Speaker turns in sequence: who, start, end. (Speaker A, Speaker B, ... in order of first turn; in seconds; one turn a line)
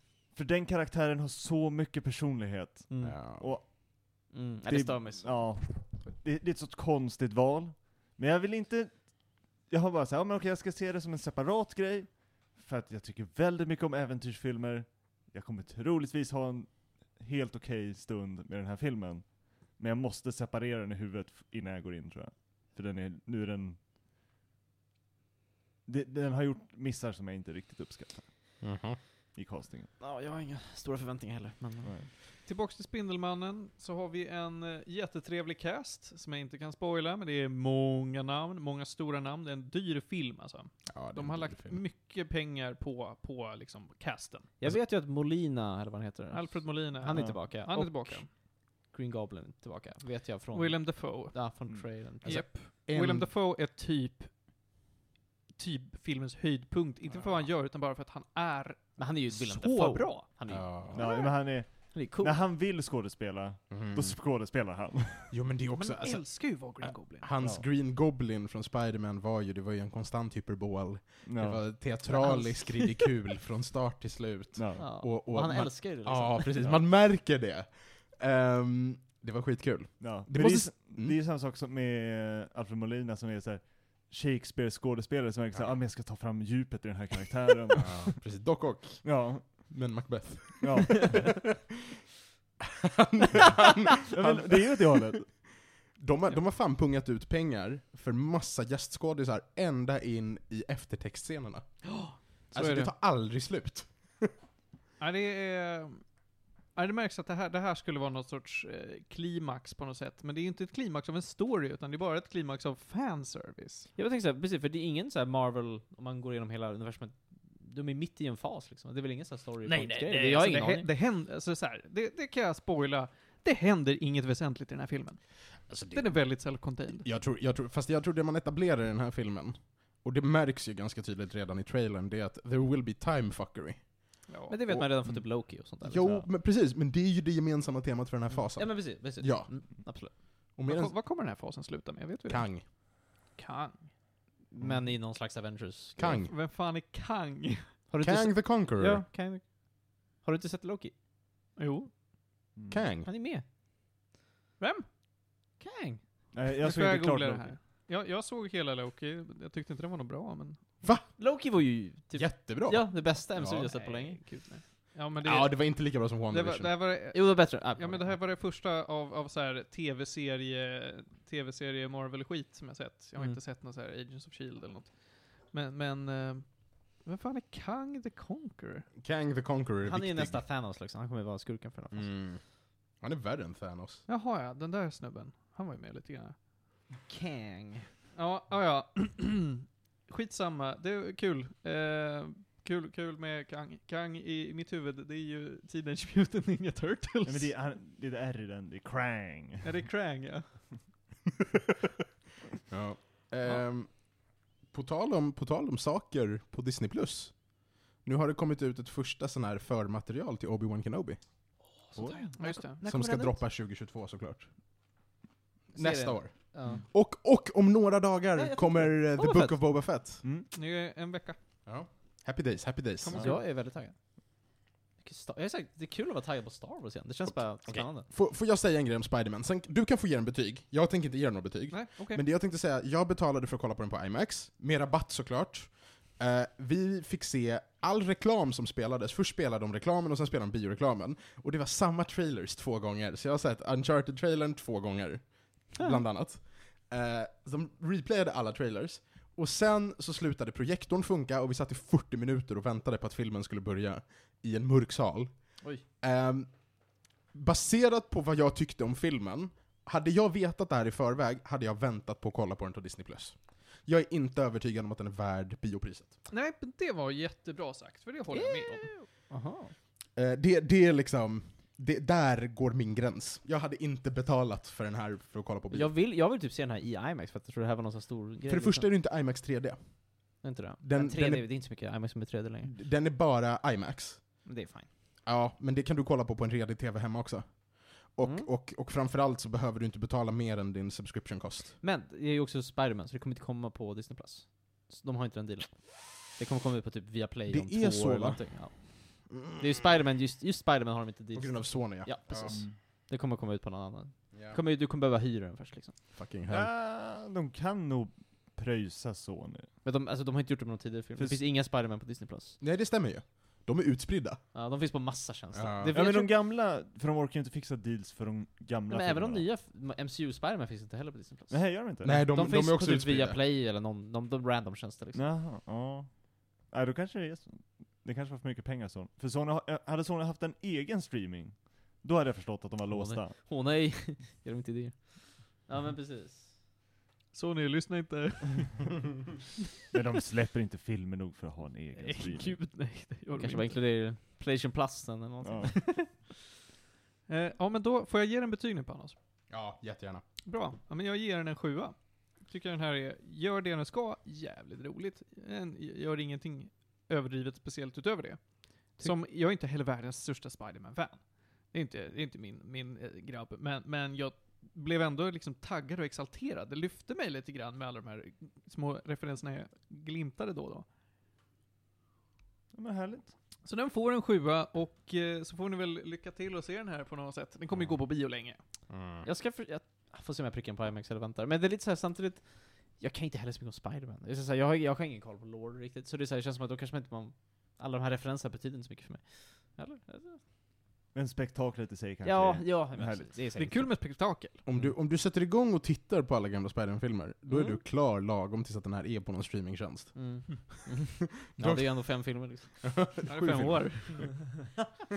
Speaker A: 0.3-23.8
Speaker B: 2.9-3.8
Speaker C: 3.0-3.5
Speaker B: 4.3-5.5
Speaker A: 25.9-28.3
Speaker C: 28.6-29.0
Speaker A: 29.3-29.9
Speaker B: 30.0-31.9
Speaker D: 32.4-44.5
Speaker C: 40.9-41.8
Speaker B: 44.6-52.5
Speaker D: 46.3-48.3
Speaker A: 47.1-47.4
Speaker D: 50.5-51.4
Speaker D: 52.2-54.3
Speaker C: 52.2-53.3
Speaker D: 55.6-60.3
Speaker B: 59.0-62.4
Speaker C: 60.5-61.0
Speaker A: 60.9-65.3
Speaker C: 63.7-64.2
Speaker C: 65.3-81.2
Speaker D: 65.8-67.3
Speaker A: 71.2-71.7
Speaker D: 72.1-72.9
Speaker A: 74.5-74.9
Speaker B: 74.8-76.7
Speaker A: 80.0-88.2
Speaker C: 87.8-91.3
Speaker A: 89.0-89.7
Speaker A: 90.6-91.3
Speaker C: 92.8-95.3
Speaker A: 94.1-95.3
Speaker C: 96.0-101.7
Speaker D: 101.8-102.9
Speaker C: 102.5-104.3
Speaker D: 105.0-106.0
Speaker D: 106.8-113.9
Speaker B: 114.0-120.9
Speaker D: 119.7-127.1
Speaker C: 125.7-126.1
Speaker C: 127.0-133.9
Speaker D: 134.3-134.6
Speaker B: 134.5-136.1
Speaker C: 134.7-139.8
Speaker B: 138.6-140.1
Speaker C: 140.6-140.9
Speaker D: 140.7-142.8
Speaker C: 142.3-142.7
Speaker D: 143.3-143.9
Speaker B: 144.5-146.2
Speaker C: 146.0-146.3
Speaker D: 146.3-147.7
Speaker B: 147.9-150.9
Speaker C: 148.0-149.1
Speaker D: 151.6-151.9
Speaker A: 152.6-152.8
Speaker C: 152.7-153.1
Speaker B: 153.1-153.4
Speaker D: 154.6-154.9
Speaker B: 155.6-156.0
Speaker A: 156.3-157.5
Speaker D: 156.6-160.6
Speaker C: 160.8-161.1
Speaker B: 161.2-164.2
Speaker C: 162.1-163.7
Speaker D: 163.6-178.9
Speaker C: 165.2-166.7
Speaker B: 167.1-168.2
Speaker C: 179.0-180.4
Speaker B: 179.8-182.1
Speaker C: 181.9-182.4
Speaker C: 183.0-184.0
Speaker D: 184.1-186.4
Speaker B: 187.1-187.9
Speaker D: 188.2-197.5
Speaker A: 197.2-199.7
Speaker D: 199.6-200.8
Speaker C: 202.7-207.5
Speaker C: 208.0-211.2
Speaker B: 211.9-213.4
Speaker A: 211.9-212.2
Speaker D: 212.3-212.8
Speaker C: 212.8-214.5
Speaker B: 215.7-216.8
Speaker C: 215.7-220.2
Speaker B: 218.3-219.6
Speaker D: 220.5-221.4
Speaker C: 221.7-223.3
Speaker D: 223.0-223.4
Speaker B: 223.2-224.0
Speaker B: 225.0-228.1
Speaker C: 227.3-256.5
Speaker D: 231.7-232.2
Speaker C: 257.3-266.1
Speaker D: 266.3-268.9
Speaker B: 268.3-269.7
Speaker C: 270.2-275.9
Speaker B: 275.7-278.9
Speaker C: 278.5-280.0
Speaker B: 280.4-282.7
Speaker C: 280.8-281.5
Speaker C: 282.6-284.2
Speaker B: 284.5-284.9
Speaker C: 285.3-291.8
Speaker B: 288.2-288.5
Speaker B: 291.8-305.9
Speaker C: 297.5-298.4
Speaker C: 299.3-299.9
Speaker C: 301.4-302.6
Speaker C: 304.3-304.6
Speaker C: 306.1-306.7
Speaker A: 306.5-309.7
Speaker B: 309.8-312.6
Speaker C: 312.6-314.4
Speaker B: 314.5-316.3
Speaker C: 315.5-316.0
Speaker A: 315.9-319.4
Speaker B: 318.9-325.2
Speaker A: 321.5-322.2
Speaker C: 322.0-323.4
Speaker A: 325.1-333.4
Speaker B: 332.9-336.5
Speaker D: 337.3-339.0
Speaker A: 339.9-342.6
Speaker D: 342.0-343.8
Speaker B: 343.3-346.1
Speaker A: 345.4-345.8
Speaker D: 347.3-349.2
Speaker C: 349.5-350.2
Speaker D: 350.5-358.4
Speaker D: 359.0-370.9
Speaker A: 372.7-373.3
Speaker D: 373.6-378.6
Speaker C: 378.9-379.3
Speaker B: 379.2-390.4
Speaker A: 391.1-393.3
Speaker B: 392.2-393.9
Speaker D: 393.6-394.6
Speaker C: 394.6-400.6
Speaker B: 397.5-397.8
Speaker B: 400.1-402.8
Speaker C: 401.5-402.2
Speaker C: 402.8-404.1
Speaker D: 403.3-404.4